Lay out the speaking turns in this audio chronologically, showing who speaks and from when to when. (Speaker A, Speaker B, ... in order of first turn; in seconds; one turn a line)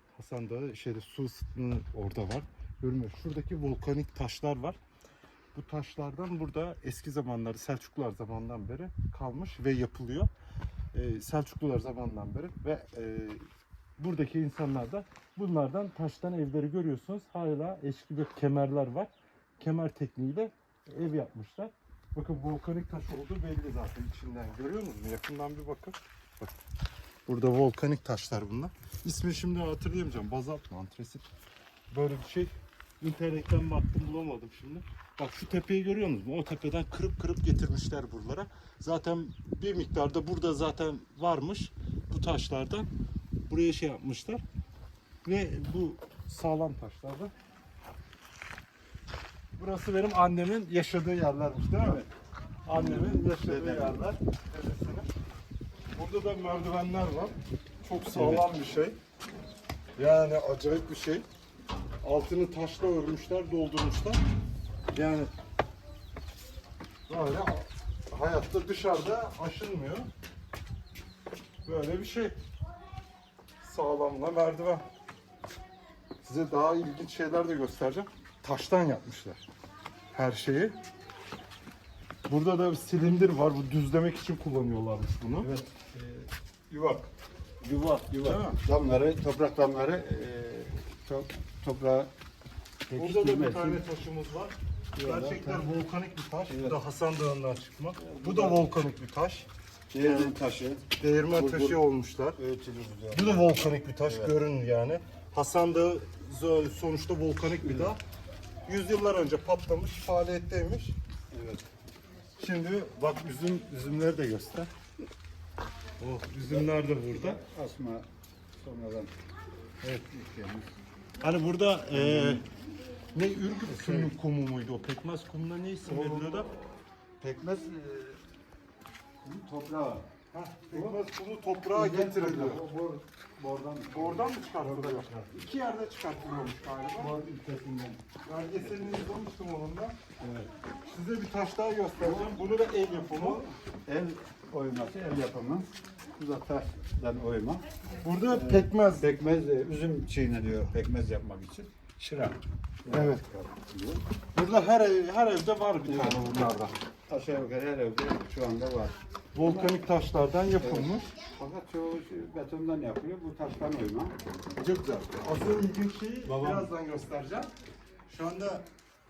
Speaker A: 0.1-4.8
Speaker A: 5.5-10.3
Speaker A: 10.9-13.4
Speaker A: 14.0-26.5
Speaker A: 27.3-31.3
Speaker A: 31.9-42.9
Speaker A: 43.5-44.4
Speaker A: 45.2-47.3
Speaker A: 49.6-52.0
Speaker B: 51.8-52.1
Speaker A: 52.7-55.1
Speaker B: 52.7-54.1
Speaker A: 56.0-59.0
Speaker B: 58.1-58.5
Speaker A: 60.0-61.2
Speaker A: 62.0-64.2
Speaker A: 64.9-65.3
Speaker A: 67.1-70.1
Speaker A: 71.7-72.3
Speaker A: 73.6-74.8
Speaker A: 76.2-79.5
Speaker A: 80.1-80.8
Speaker A: 82.3-85.5
Speaker B: 85.4-87.1
Speaker B: 87.6-92.1
Speaker A: 88.1-88.6
Speaker B: 92.9-93.8
Speaker A: 93.0-99.5
Speaker B: 95.0-95.7
Speaker B: 96.5-96.8
Speaker B: 98.0-98.6
Speaker B: 99.9-101.8
Speaker A: 100.0-102.4
Speaker B: 102.4-104.3
Speaker A: 103.1-108.0
Speaker B: 107.6-107.9
Speaker A: 108.7-111.0
Speaker B: 111.3-111.7
Speaker A: 112.4-114.7
Speaker A: 116.0-117.4
Speaker B: 116.5-119.1
Speaker B: 119.8-120.7
Speaker A: 121.2-122.4
Speaker B: 121.9-122.4
Speaker A: 123.1-126.5
Speaker B: 123.7-124.1
Speaker B: 125.8-126.6
Speaker B: 127.2-128.3
Speaker B: 129.2-130.1
Speaker A: 130.3-132.6
Speaker B: 130.7-131.0
Speaker B: 131.7-135.4
Speaker A: 133.9-137.2
Speaker B: 137.0-138.0
Speaker A: 138.2-140.0
Speaker B: 138.6-139.1
Speaker B: 140.2-140.5
Speaker A: 140.8-143.4
Speaker B: 143.1-147.6
Speaker A: 148.0-149.1
Speaker B: 148.3-154.0
Speaker A: 152.9-153.2
Speaker A: 154.3-156.8
Speaker B: 155.8-156.3
Speaker B: 157.1-159.7
Speaker A: 159.3-161.1
Speaker B: 160.6-164.2
Speaker A: 164.6-167.5
Speaker B: 166.2-166.7
Speaker A: 168.1-168.7